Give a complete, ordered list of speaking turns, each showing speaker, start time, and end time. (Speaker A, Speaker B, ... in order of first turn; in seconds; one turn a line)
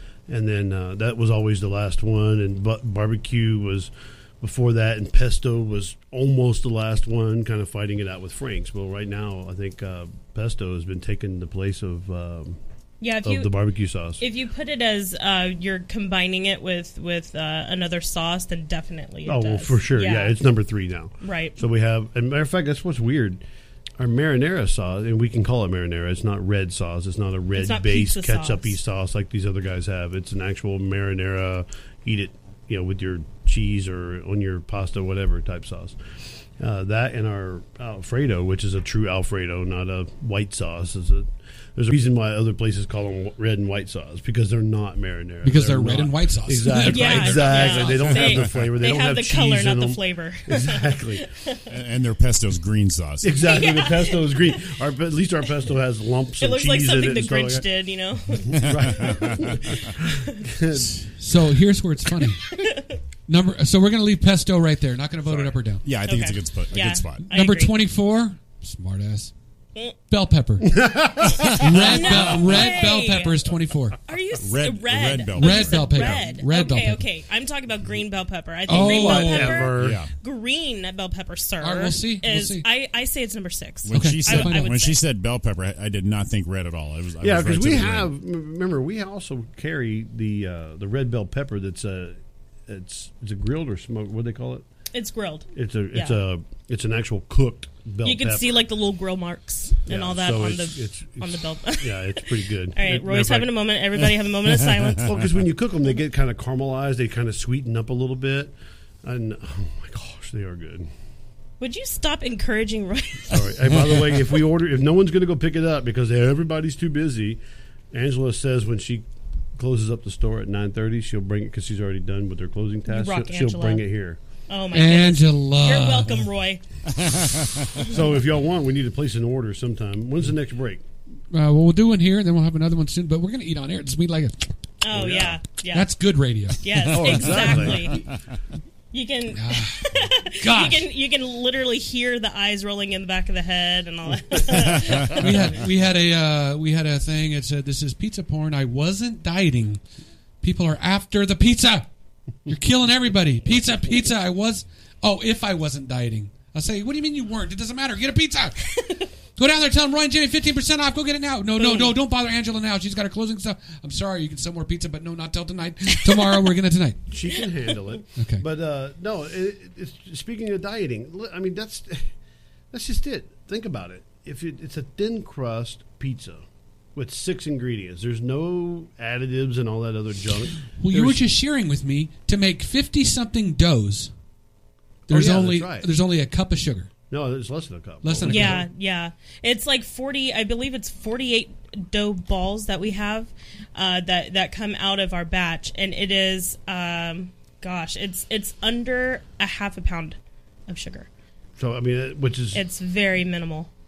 Speaker A: 0.3-12.6
Speaker B: 13.0-13.5
Speaker A: 13.2-14.2
Speaker B: 14.2-20.4
Speaker A: 19.2-23.4
Speaker B: 21.2-21.6
Speaker A: 24.0-36.0
Speaker B: 27.5-28.8
Speaker A: 36.6-51.2
Speaker C: 45.4-48.2
Speaker B: 46.8-51.6
Speaker D: 48.1-48.7
Speaker D: 51.7-53.5
Speaker A: 53.2-57.6
Speaker B: 53.4-54.6
Speaker B: 56.4-59.2
Speaker A: 58.5-61.1
Speaker D: 58.5-59.8
Speaker B: 60.0-60.4
Speaker C: 60.8-62.5
Speaker B: 62.5-63.0
Speaker C: 63.3-65.8
Speaker D: 65.8-67.2
Speaker B: 66.0-67.7
Speaker C: 67.3-69.3
Speaker C: 70.1-74.0
Speaker A: 70.6-72.2
Speaker B: 71.8-73.4
Speaker B: 74.1-85.0
Speaker D: 74.4-76.2
Speaker C: 75.3-77.0
Speaker C: 78.7-79.7
Speaker A: 78.7-80.0
Speaker D: 79.8-80.1
Speaker C: 81.6-82.7
Speaker D: 83.8-88.1
Speaker C: 83.9-84.7
Speaker A: 87.2-92.2
Speaker A: 92.7-94.6
Speaker B: 94.9-96.2
Speaker A: 95.5-98.6
Speaker B: 98.0-105.1
Speaker A: 99.9-103.5
Speaker A: 105.0-110.9
Speaker B: 111.6-113.5
Speaker A: 113.3-117.4
Speaker A: 117.9-119.0
Speaker A: 119.6-124.2
Speaker B: 122.9-123.8
Speaker B: 124.5-126.6
Speaker C: 124.7-126.2
Speaker D: 127.0-127.7
Speaker A: 127.8-130.8
Speaker C: 131.3-134.5
Speaker B: 134.8-135.9
Speaker A: 134.9-135.4
Speaker C: 135.7-137.7
Speaker B: 136.6-138.0
Speaker A: 136.9-138.1
Speaker B: 138.9-145.3
Speaker C: 139.3-140.9
Speaker C: 145.1-149.8
Speaker C: 150.4-151.9
Speaker C: 152.4-158.7
Speaker C: 159.3-167.0
Speaker B: 161.6-161.9
Speaker A: 167.1-172.1
Speaker C: 168.2-168.4
Speaker A: 172.7-176.4
Speaker A: 176.9-181.2
Speaker C: 180.8-184.1
Speaker A: 185.1-185.9
Speaker C: 185.1-186.9
Speaker A: 187.1-188.7
Speaker C: 188.0-188.7
Speaker B: 188.2-201.1
Speaker A: 201.6-202.6
Speaker B: 202.5-203.7